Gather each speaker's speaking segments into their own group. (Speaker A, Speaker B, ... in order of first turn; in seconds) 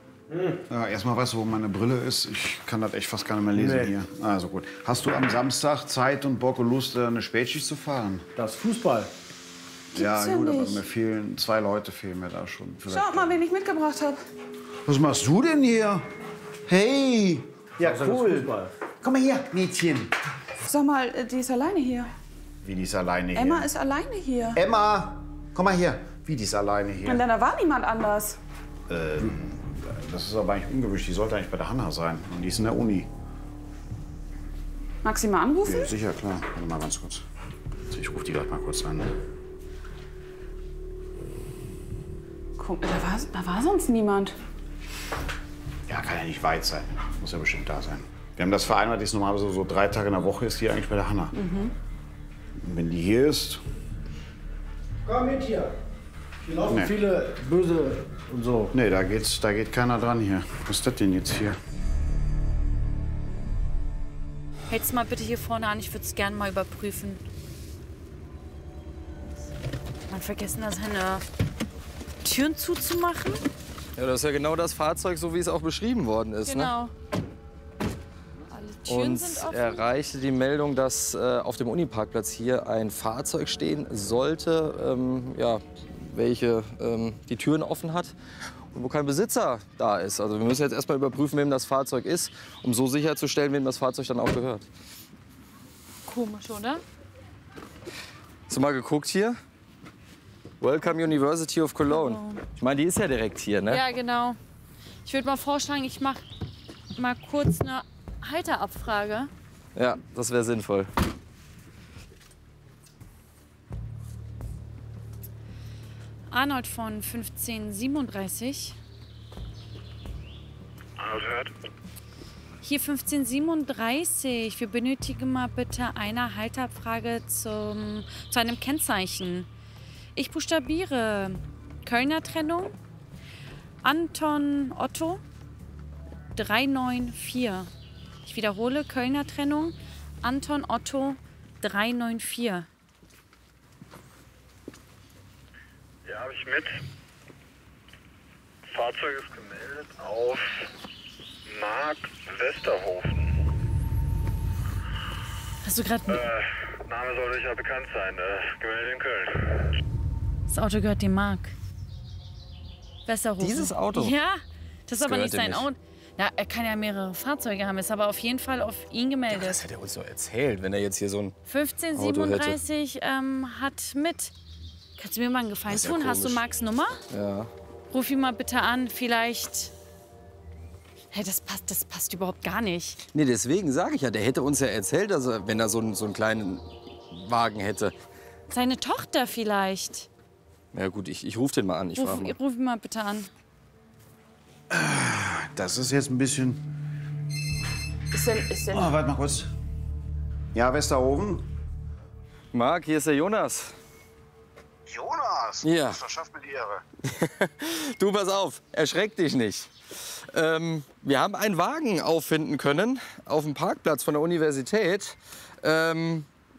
Speaker A: 0.3-0.6, 3.5-3.9, 8.3-9.1, 17.8-18.7, 55.0-55.7, 56.4-58.7
Speaker B: 0.7-8.2, 9.9-13.4, 14.8-16.0, 16.7-20.1, 22.6-23.7, 24.6-27.2, 28.9-33.1, 35.6-37.2, 37.9-39.1, 45.9-51.3, 52.6-53.6, 56.7-56.9, 58.7-61.6, 194.7-196.6, 198.7-199.5, 200.5-201.4, 204.9-206.8
Speaker C: 9.9-10.8, 12.9-14.2, 20.6-22.1, 23.3-24.6, 27.0-28.4, 35.0-35.9, 42.6-44.3, 51.3-51.7, 198.1-198.9
Speaker D: 64.7-67.2, 70.1-71.2, 72.2-73.4, 76.5-76.9, 78.5-79.9, 96.0-96.8, 101.8-102.4, 103.7-104.4, 105.0-106.2, 107.0-109.3, 116.3-118.8, 122.6-129.5, 130.1-132.7, 133.8-135.2, 136.3-137.7, 138.2-142.7, 155.6-156.3, 160.5-161.5, 163.1-169.6, 171.4-174.3, 175.0-177.0, 177.9-179.7, 181.1-183.0, 188.5-190.1, 191.9-193.3
Speaker E: 74.0-76.7, 78.8-88.1, 88.7-94.7, 98.5-99.3, 100.6-103.8, 109.7-110.9, 163.4-164.2, 165.0-165.7, 169.3-171.3, 171.9-172.6, 175.7-176.4, 177.1-177.5, 183.1-187.9, 190.7-192.3, 202.5-203.7, 205.6-206.0, 207.0-209.7, 210.3-216.2
Speaker F: 121.0-121.5, 146.0-146.8, 148.7-150.6, 151.5-153.3, 156.1-159.7